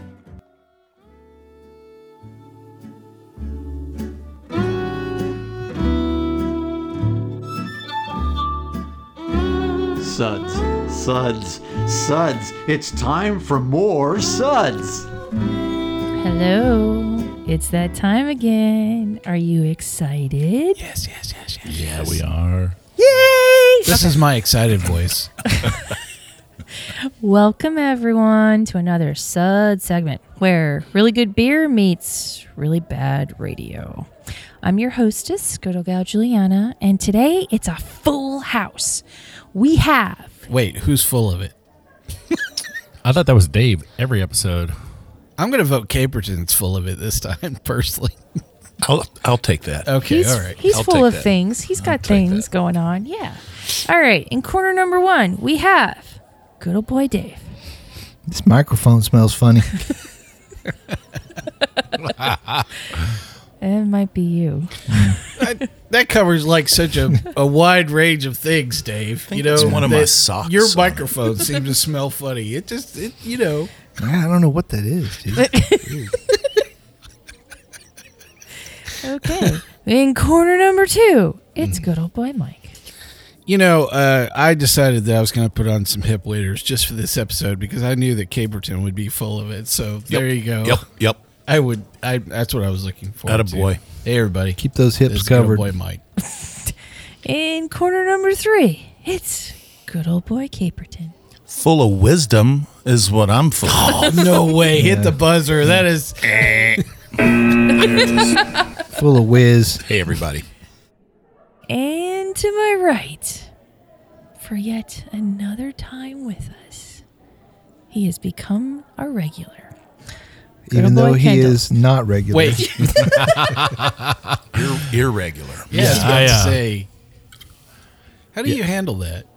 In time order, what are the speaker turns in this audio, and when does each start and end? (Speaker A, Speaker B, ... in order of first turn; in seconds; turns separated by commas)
Speaker A: 10.0-15.1, Speaker B: 16.2-20.8, Speaker C: 20.8-22.2, Speaker D: 21.6-22.8, Speaker B: 23.0-24.2, Speaker C: 23.9-25.4, Speaker B: 25.5-25.8, Speaker B: 26.8-34.1, Speaker B: 34.6-40.4, Speaker C: 40.5-41.5, Speaker D: 43.0-44.7, Speaker C: 45.4-48.2, Speaker E: 48.8-49.9, Speaker C: 49.9-50.6, Speaker B: 50.0-57.5, Speaker E: 50.7-52.5, Speaker F: 58.3-59.8, Speaker B: 63.6-64.8, Speaker F: 64.9-65.2, Speaker C: 65.4-73.7, Speaker E: 69.3-71.3, Speaker F: 69.5-69.9, Speaker F: 74.0-76.2, Speaker B: 75.4-75.8, Speaker B: 79.0-82.8, Speaker C: 81.6-81.8, Speaker C: 83.5-90.8, Speaker E: 90.1-91.2, Speaker C: 91.5-96.0, Speaker E: 93.2-93.8, Speaker F: 94.6-95.7, Speaker B: 96.2-101.1, Speaker E: 101.5-104.3, Speaker C: 103.6-106.8, Speaker F: 104.7-105.8, Speaker E: 106.2-106.8, Speaker E: 107.6-108.4, Speaker B: 108.1-108.6, Speaker F: 108.9-109.8, Speaker E: 109.8-110.5, Speaker B: 111.7-113.5, Speaker B: 114.4-117.0, Speaker B: 117.9-119.7, Speaker F: 120.7-123.5, Speaker B: 120.7-121.6, Speaker C: 122.3-123.2, Speaker D: 123.2-124.4, Speaker E: 124.5-126.3, Speaker C: 125.7-126.9, Speaker D: 125.7-126.6, Speaker C: 128.3-129.3